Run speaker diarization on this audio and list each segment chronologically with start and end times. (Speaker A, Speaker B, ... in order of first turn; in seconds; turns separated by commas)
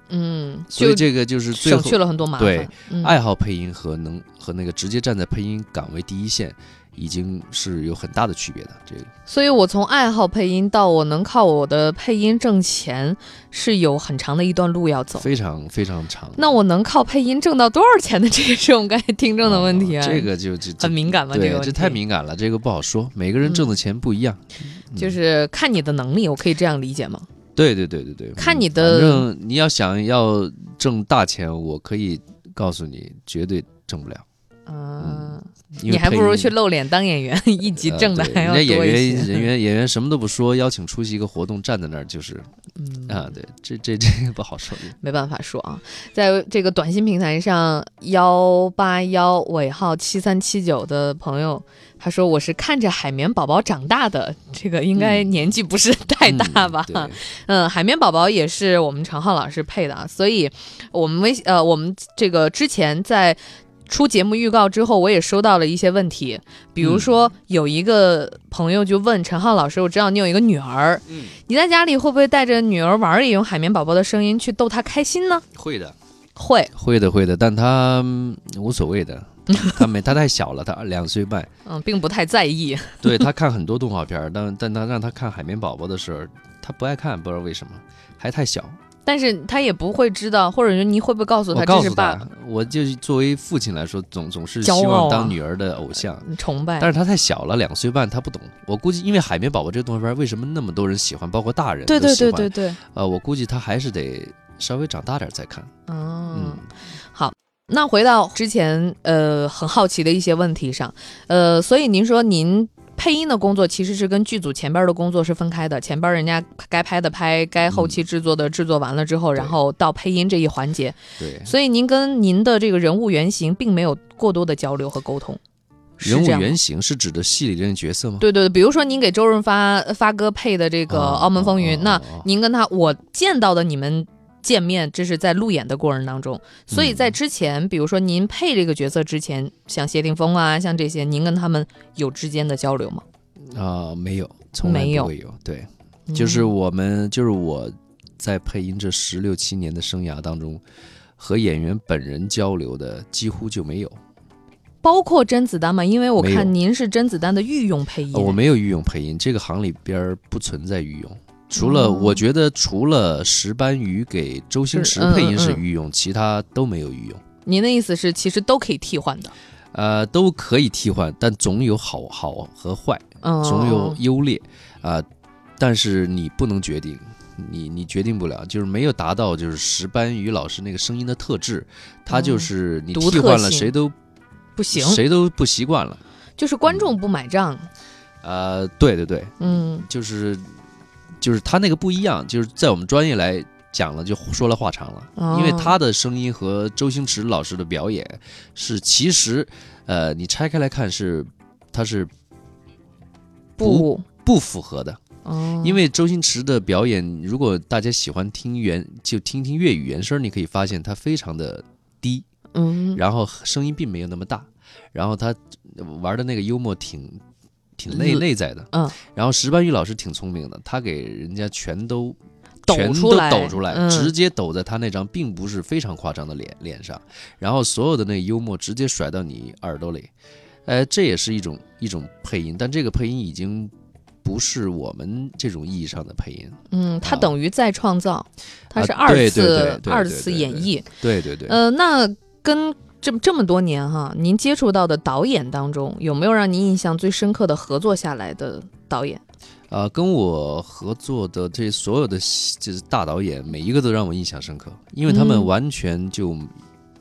Speaker A: 0.1-3.2, Speaker B: 0.7-9.1, Speaker A: 9.3-15.3, Speaker B: 15.2-16.5, Speaker A: 16.4-22.0, Speaker B: 19.4-25.2, Speaker A: 23.4-23.7, Speaker A: 25.0-27.3, Speaker B: 27.6-34.2, Speaker A: 28.4-29.3, Speaker A: 34.7-39.5, Speaker B: 35.0-36.5, Speaker B: 37.8-42.5, Speaker A: 42.8-43.4, Speaker B: 43.1-45.0, Speaker A: 45.0-75.4, Speaker B: 55.0-55.3, Speaker B: 56.2-57.2, Speaker B: 66.8-67.2, Speaker B: 71.1-71.4, Speaker B: 75.5-76.0, Speaker A: 76.4-76.7, Speaker B: 76.8-81.5, Speaker A: 79.5-79.8, Speaker A: 81.7-83.2, Speaker B: 83.0-88.8, Speaker A: 89.1-92.2, Speaker B: 91.5-96.3, Speaker A: 94.6-95.4, Speaker A: 96.2-96.9, Speaker B: 96.8-105.7, Speaker A: 101.9-102.8, Speaker A: 105.9-125.4, Speaker B: 106.3-106.7, Speaker B: 117.7-118.0, Speaker B: 121.2-121.5, Speaker A: 126.0-126.6, Speaker B: 126.0-128.2, Speaker A: 128.2-143.0, Speaker B: 130.9-132.3, Speaker B: 136.7-137.2, Speaker B: 143.4-150.6, Speaker A: 144.6-145.1, Speaker A: 146.1-146.5, Speaker B: 151.2-154.0, Speaker A: 154.8-158.4, Speaker B: 156.2-156.5, Speaker B: 158.1-167.2, Speaker A: 161.5-162.2, Speaker A: 164.7-165.6, Speaker A: 167.5-169.3, Speaker B: 169.7-175.1, Speaker A: 173.2-174.0, Speaker B: 175.6-183.9, Speaker A: 182.1-183.8, Speaker A: 184.6-185.0, Speaker B: 184.7-186.0, Speaker A: 186.4-187.7, Speaker B: 186.7-186.9, Speaker B: 188.2-190.5, Speaker A: 189.4-189.9, Speaker B: 191.2-202.1, Speaker A: 195.2-195.8, Speaker A: 203.6-204.0, Speaker B: 203.6-205.0, Speaker A: 205.2-205.8, Speaker B: 205.6-212.2, Speaker A: 212.5-213.0, Speaker B: 212.9-217.2, Speaker B: 217.8-230.1, Speaker A: 217.9-219.0, Speaker A: 222.7-224.1, Speaker B: 230.7-233.7, Speaker B: 234.2-237.3, Speaker A: 236.7-240.9, Speaker B: 238.7-241.6, Speaker A: 241.5-249.2, Speaker B: 249.7-256.5, Speaker A: 255.1-255.5